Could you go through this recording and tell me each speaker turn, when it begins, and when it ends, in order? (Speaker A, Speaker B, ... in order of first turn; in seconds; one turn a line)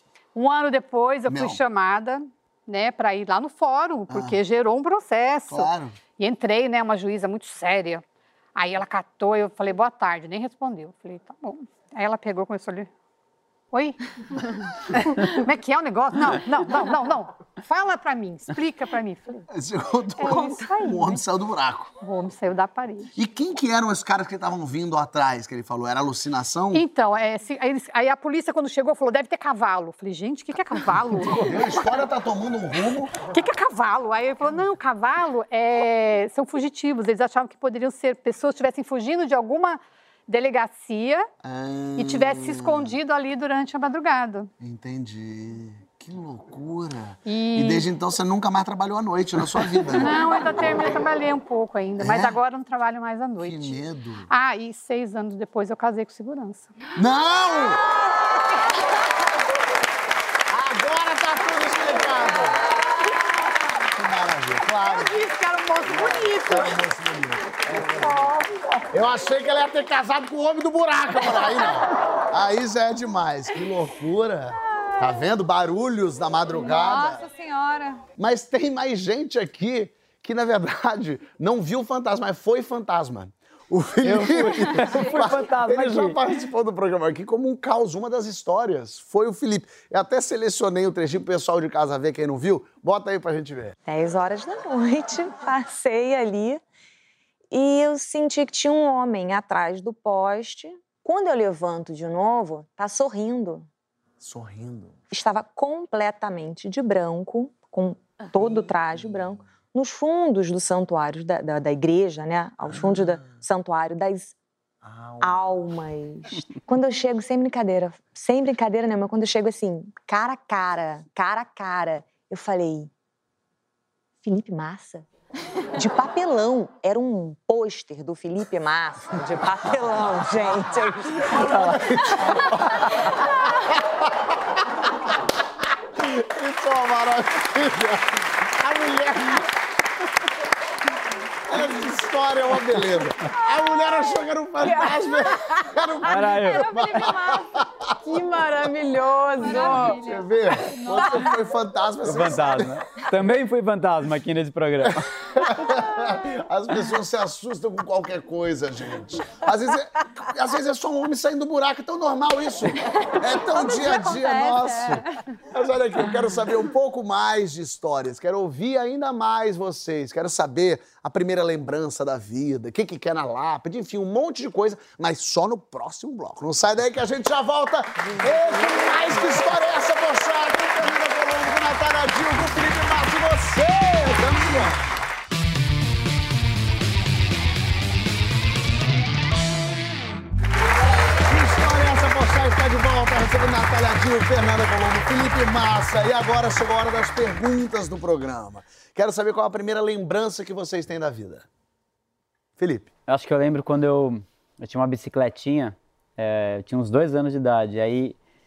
Speaker A: 0.3-8.0
Speaker B: 1.3-1.6
Speaker B: 4.1-4.4
Speaker B: 5.5-6.0
Speaker A: 8.6-12.9
Speaker A: 13.7-19.5
Speaker B: 19.5-21.9
Speaker A: 20.2-21.2
Speaker A: 22.0-23.1
Speaker B: 23.2-26.9
Speaker A: 26.7-31.5
Speaker B: 31.2-33.2
Speaker A: 33.2-41.3
Speaker B: 41.4-42.9
Speaker A: 42.0-44.5
Speaker B: 44.6-51.0
Speaker A: 47.3-47.9
Speaker A: 49.9-53.8
Speaker B: 52.0-52.4
Speaker B: 53.4-54.3
Speaker A: 54.3-56.7
Speaker B: 57.0-57.9
Speaker B: 60.5-62.6
Speaker B: 63.9-65.2
Speaker A: 64.8-66.8
Speaker B: 65.8-68.3
Speaker A: 67.9-68.8
Speaker B: 68.9-77.2
Speaker C: 76.6-78.0
Speaker B: 78.2-93.8
Speaker D: 84.0-86.2
Speaker E: 93.9-96.6
Speaker E: 97.5-103.7
Speaker B: 104.2-105.0
Speaker E: 105.1-114.3
Speaker B: 114.9-115.2
Speaker E: 115.2-122.9
Speaker E: 124.2-125.1
Speaker E: 125.8-131.5
Speaker B: 131.2-135.1
Speaker B: 135.9-139.5
Speaker B: 141.5-147.9
Speaker C: 143.6-144.0
Speaker F: 144.6-145.8
Speaker D: 146.0-146.7
Speaker C: 146.2-147.7
Speaker F: 148.0-150.0
Speaker C: 149.4-151.4
Speaker B: 149.6-152.8
Speaker D: 152.0-155.1
Speaker B: 154.8-184.8
Speaker C: 162.9-165.2
Speaker B: 191.2-201.5
Speaker B: 202.6-202.9
Speaker D: 203.1-208.2